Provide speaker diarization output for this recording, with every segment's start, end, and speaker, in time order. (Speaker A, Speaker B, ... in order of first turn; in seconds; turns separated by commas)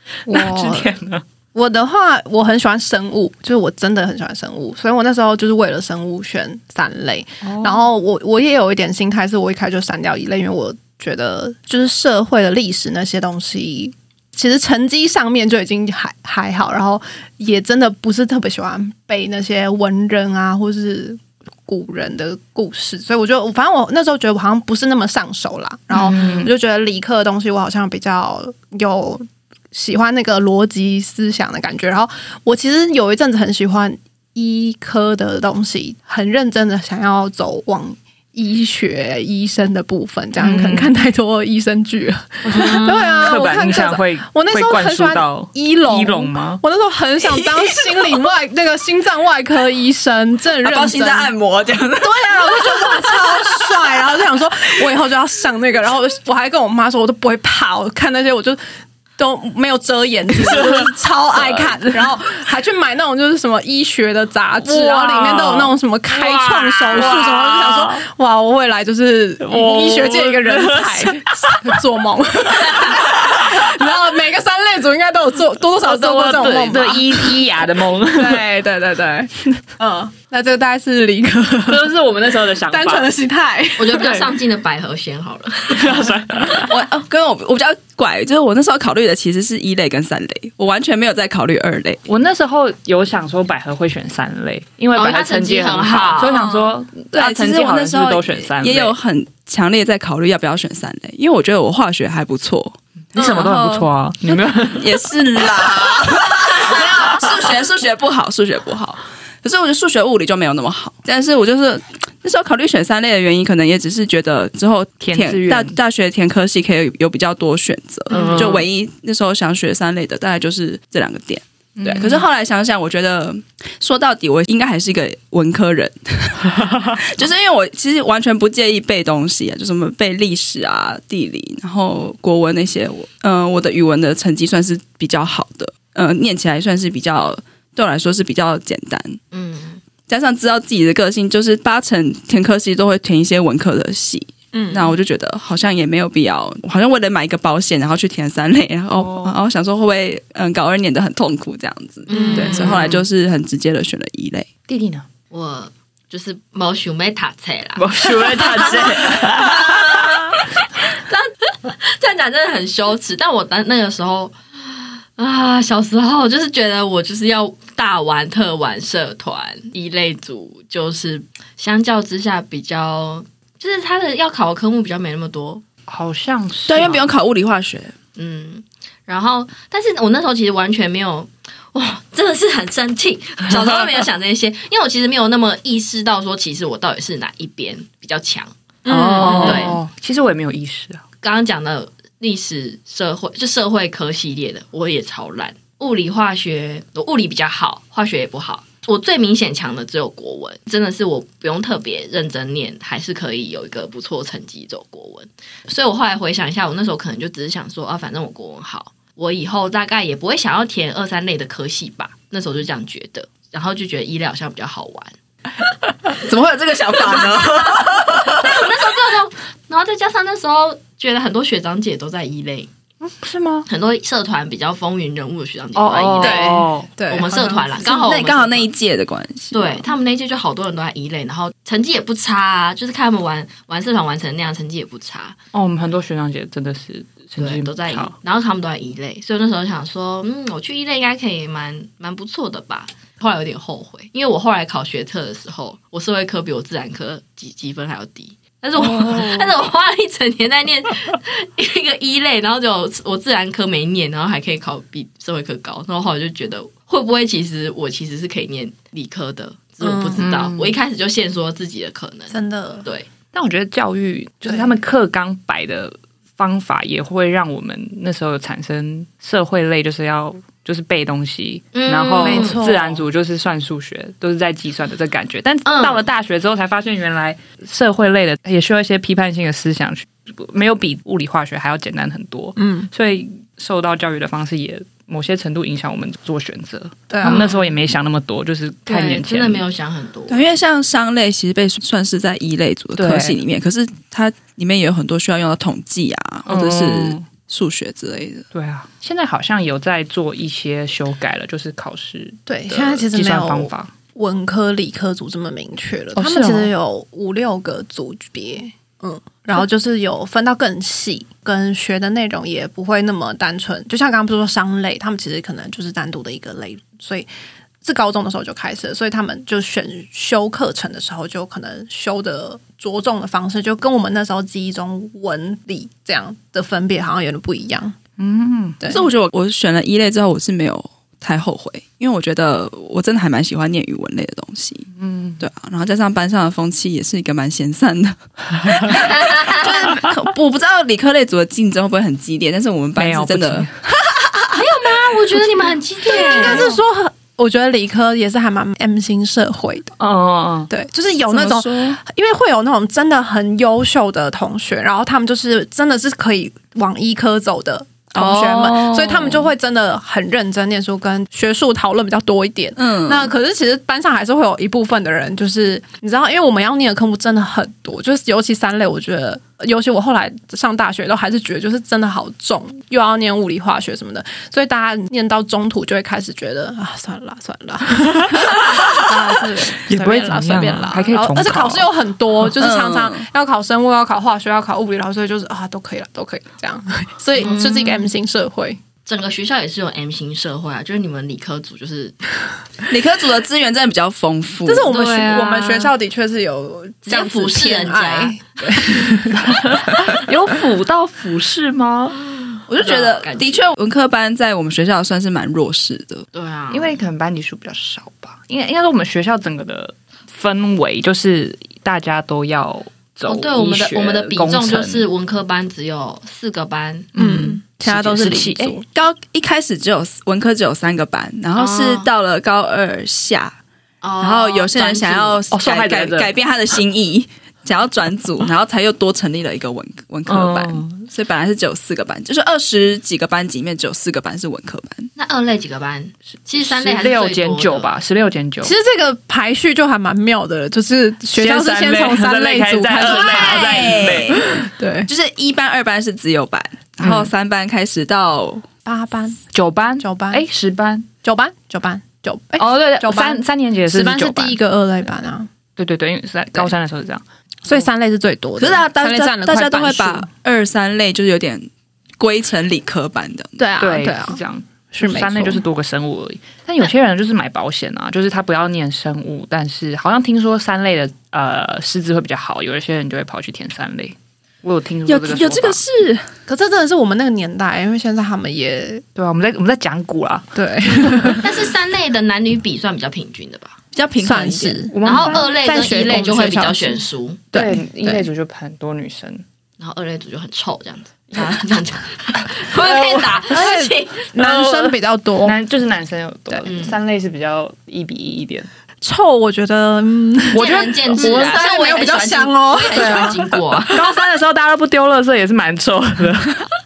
Speaker A: 0.3-0.9, Speaker B: 0.3-1.2, Speaker A: 1.5-51.3, Speaker B: 7.4-7.9, Speaker C: 25.9-26.3, Speaker B: 26.0-26.5, Speaker B: 40.4-40.9, Speaker B: 42.4-46.6, Speaker D: 47.2-48.1, Speaker D: 50.6-54.2, Speaker A: 52.0-58.6, Speaker A: 59.2-77.6, Speaker B: 64.7-68.0, Speaker B: 69.4-71.6, Speaker B: 75.8-78.4, Speaker A: 78.1-81.9, Speaker B: 81.7-83.1, Speaker A: 82.6-84.3, Speaker C: 83.8-86.0, Speaker B: 83.9-84.3, Speaker B: 85.7-86.7, Speaker D: 86.7-92.0, Speaker B: 92.0-98.9, Speaker C: 94.9-96.4, Speaker D: 96.3-103.9, Speaker B: 103.1-105.0, Speaker D: 104.5-139.2, Speaker B: 115.0-115.8, Speaker C: 118.1-118.7, Speaker B: 118.1-118.6, Speaker B: 121.8-122.2, Speaker C: 139.3-139.8, Speaker D: 140.1-154.5, Speaker A: 144.5-144.9, Speaker B: 148.9-149.4, Speaker C: 152.1-153.1, Speaker A: 152.1-152.7, Speaker B: 154.7-155.1, Speaker C: 155.3-175.6, Speaker B: 157.8-160.2, Speaker B: 175.9-176.9, Speaker D: 176.7-177.9, Speaker C: 176.7-177.1, Speaker C: 178.2-188.5, Speaker A: 188.8-189.7, Speaker B: 188.9-191.0, Speaker C: 189.2-189.8, Speaker C: 191.2-215.1, Speaker D: 216.1-218.6, Speaker C: 217.2-217.4, Speaker C: 218.4-222.7, Speaker B: 223.0-223.7, Speaker C: 223.7-228.7, Speaker B: 225.7-226.9, Speaker A: 226.2-227.8, Speaker D: 227.8-229.8, Speaker C: 229.5-235.3, Speaker B: 235.5-238.1, Speaker C: 237.3-263.1, Speaker B: 248.8-249.2, Speaker A: 259.8-260.3, Speaker B: 260.2-260.8, Speaker A: 262.3-262.9, Speaker B: 263.3-289.6, Speaker C: 271.7-272.6, Speaker A: 272.2-273.0, Speaker C: 275.6-276.0, Speaker A: 282.6-282.9, Speaker A: 287.1-287.6, Speaker C: 288.9-290.5, Speaker D: 290.3-298.4, Speaker B: 292.9-293.4, Speaker B: 296.4-297.3, Speaker B: 298.5-303.9, Speaker A: 302.5-317.3, Speaker B: 306.1-306.7, Speaker A: 317.8-327.9, Speaker B: 328.2-328.8, Speaker D: 328.9-334.9, Speaker B: 335.0-335.4, Speaker D: 335.4-343.7, Speaker B: 342.9-343.7, Speaker C: 344.5-346.7, Speaker A: 346.0-349.9, Speaker B: 346.1-346.7, Speaker B: 350.0-350.7, Speaker A: 350.7-388.8, Speaker D: 351.3-352.0, Speaker D: 358.1-359.5, Speaker D: 362.8-363.3, Speaker B: 379.9-381.9, Speaker D: 382.5-383.2, Speaker C: 387.4-388.1, Speaker C: 389.0-392.2, Speaker D: 392.9-394.9, Speaker A: 394.6-399.4, Speaker C: 394.9-395.9, Speaker C: 397.1-398.4, Speaker B: 399.4-402.2, Speaker D: 402.7-406.2, Speaker C: 402.8-403.7, Speaker C: 406.3-407.0, Speaker B: 406.7-415.1, Speaker C: 413.2-417.1, Speaker B: 417.1-418.8, Speaker A: 417.1-418.9, Speaker D: 418.1-423.6, Speaker C: 421.5-422.1, Speaker C: 424.0-425.4, Speaker D: 424.2-435.1, Speaker B: 425.5-426.3, Speaker B: 430.3-431.1, Speaker C: 435.1-437.9, Speaker B: 436.5-438.7, Speaker A: 438.6-445.1, Speaker B: 441.3-444.4, Speaker D: 443.3-444.4, Speaker D: 445.1-448.6, Speaker B: 447.0-447.3, Speaker A: 448.8-449.4, Speaker B: 449.5-451.1, Speaker A: 450.0-450.4, Speaker A: 451.2-455.5, Speaker B: 452.6-454.6, Speaker B: 455.8-457.2, Speaker A: 457.6-460.3, Speaker D: 458.6-461.7, Speaker D: 462.2-463.6, Speaker A: 463.6-464.4, Speaker B: 463.8-475.8, Speaker A: 464.9-465.6, Speaker D: 475.1-476.3, Speaker A: 476.5-479.0, Speaker B: 479.1-481.4, Speaker A: 480.5-481.6, Speaker C: 481.4-483.8, Speaker D: 483.9-484.8, Speaker A: 484.2-488.2, Speaker B: 484.9-485.6, Speaker C: 485.0-487.4, Speaker B: 487.5-489.4, Speaker C: 489.8-494.3, Speaker B: 492.8-493.3, Speaker A: 493.5-495.6, Speaker B: 494.4-498.7, Speaker C: 496.6-497.0, Speaker A: 499.0-504.1, Speaker C: 500.5-504.0, Speaker B: 500.6-501.6, Speaker B: 502.9-506.7